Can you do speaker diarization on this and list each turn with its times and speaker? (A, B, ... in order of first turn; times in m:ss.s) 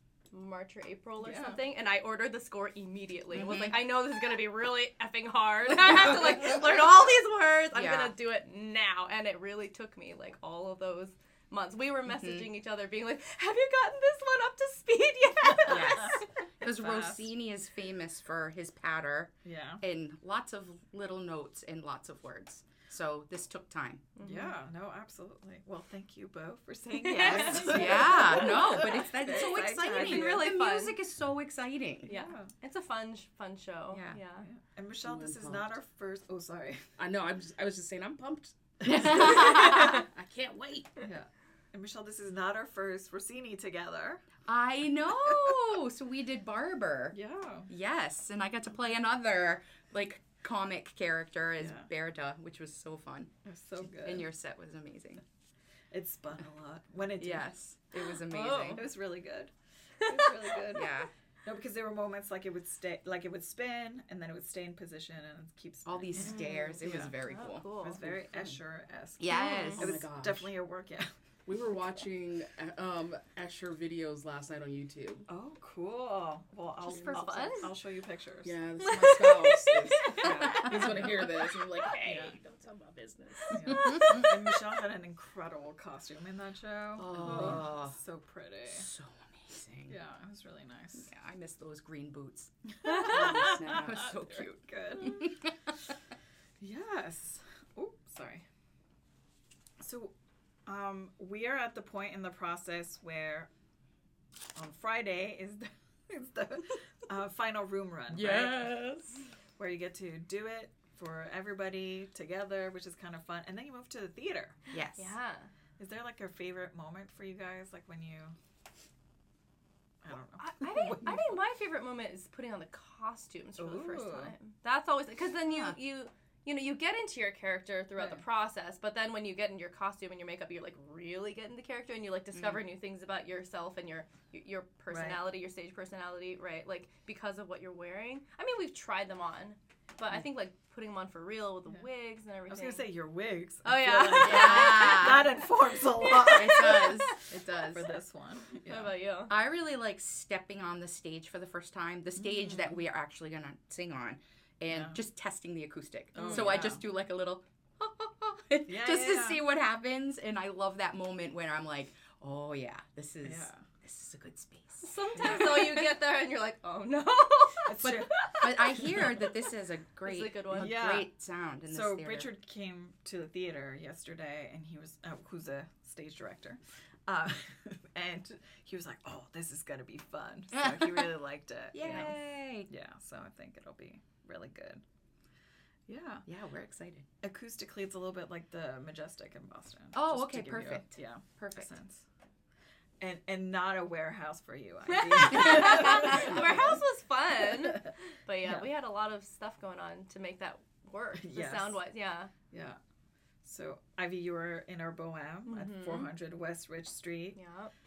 0:00.3-0:16.2 A
0:01.2-0:01.6 B
0:03.3-0:03.9 C
0:07.7-0:08.2 C
0:12.1-0:12.5 C
0:15.7-0:24.0 C
0:15.7-0:17.3 B
0:19.4-0:19.8 B
0:24.2-0:24.6 A
0:24.2-0:30.5 B
0:27.0-0:27.9 A
0:27.2-0:32.1 C
0:27.2-0:28.6 D
0:29.8-0:31.0 A
0:32.0-0:32.5 B
0:32.1-0:34.5 A
0:33.9-0:34.2 C
0:34.4-0:36.8 B
0:35.0-0:35.8 D
0:37.0-0:41.0 D
0:38.9-0:40.0 B
0:39.1-0:39.9 C
0:41.0-0:44.3 B
0:44.5-0:47.2 C
0:47.1-0:47.7 B
0:47.7-0:53.3 C
0:51.6-0:51.9 B
0:53.4-0:54.3 B
0:54.0-0:55.2 C
0:55.9-0:57.5 B
0:57.2-0:58.9 C
0:58.2-0:58.9 A
0:58.7-0:59.5 B
1:00.0-1:00.9 B
1:00.7-1:01.1 C
1:01.4-1:07.2 B
1:05.8-1:07.7 C
1:06.4-1:08.0 A
1:07.8-1:11.1 B
1:08.0-1:08.6 D
1:09.2-1:10.0 C
1:09.3-1:09.7 A
1:09.8-1:10.6 D
1:11.5-1:15.3 D
1:15.3-1:18.6 B
1:16.8-1:17.8 A
1:17.0-1:17.4 D
1:18.4-1:23.9 D
1:18.8-1:20.9 A
1:20.1-1:21.2 B
1:20.2-1:21.3 C
1:22.0-1:22.3 B
1:23.5-1:28.9 B
1:23.7-1:24.3 C
1:27.0-1:28.0 C
1:27.2-1:27.6 D
1:28.7-1:30.0 C
1:29.9-1:31.1 B
1:31.0-1:35.7 C
1:32.8-1:35.3 B
1:33.2-1:33.9 D
1:36.6-1:38.4 B
1:39.8-1:40.1 B
1:40.7-1:43.5 B
1:44.6-1:48.8 B
1:48.1-1:49.2 C
1:49.6-1:54.6 B
1:54.7-1:55.2 C
1:54.9-1:55.5 A
1:55.8-1:58.4 B
2:00.0-2:01.4 B
2:00.4-2:22.9 A
2:03.6-2:04.4 B
2:05.4-2:05.8 C
2:08.0-2:08.2 B
2:12.3-2:12.6 C
2:14.9-2:15.2 B
2:22.5-2:27.1 B
2:23.6-2:25.2 A
2:24.2-2:25.3 C
2:26.2-2:27.9 C
2:27.7-2:29.0 B
2:28.7-2:29.3 A
2:29.3-2:45.9 C
2:32.2-2:32.8 B
2:34.7-2:35.0 B
2:36.1-2:36.8 B
2:38.7-2:39.4 B
2:43.2-2:43.6 B
2:44.8-2:48.8 A
2:45.2-2:45.6 B
2:47.6-2:48.1 B
2:47.8-2:52.3 C
2:50.0-2:50.8 A
2:50.5-2:51.1 B
2:51.7-3:04.8 B
3:00.6-3:01.1 C
3:01.7-3:02.7 C
3:05.9-3:06.2 B
3:06.3-3:07.0 C
3:07.2-3:12.1 B
3:09.9-3:11.7 C
3:13.0-3:16.8 B
3:14.9-3:22.3 A
3:21.2-3:21.8 B
3:22.5-3:22.8 B
3:23.4-3:27.4 B
3:25.5-3:26.1 A
3:27.4-3:27.7 A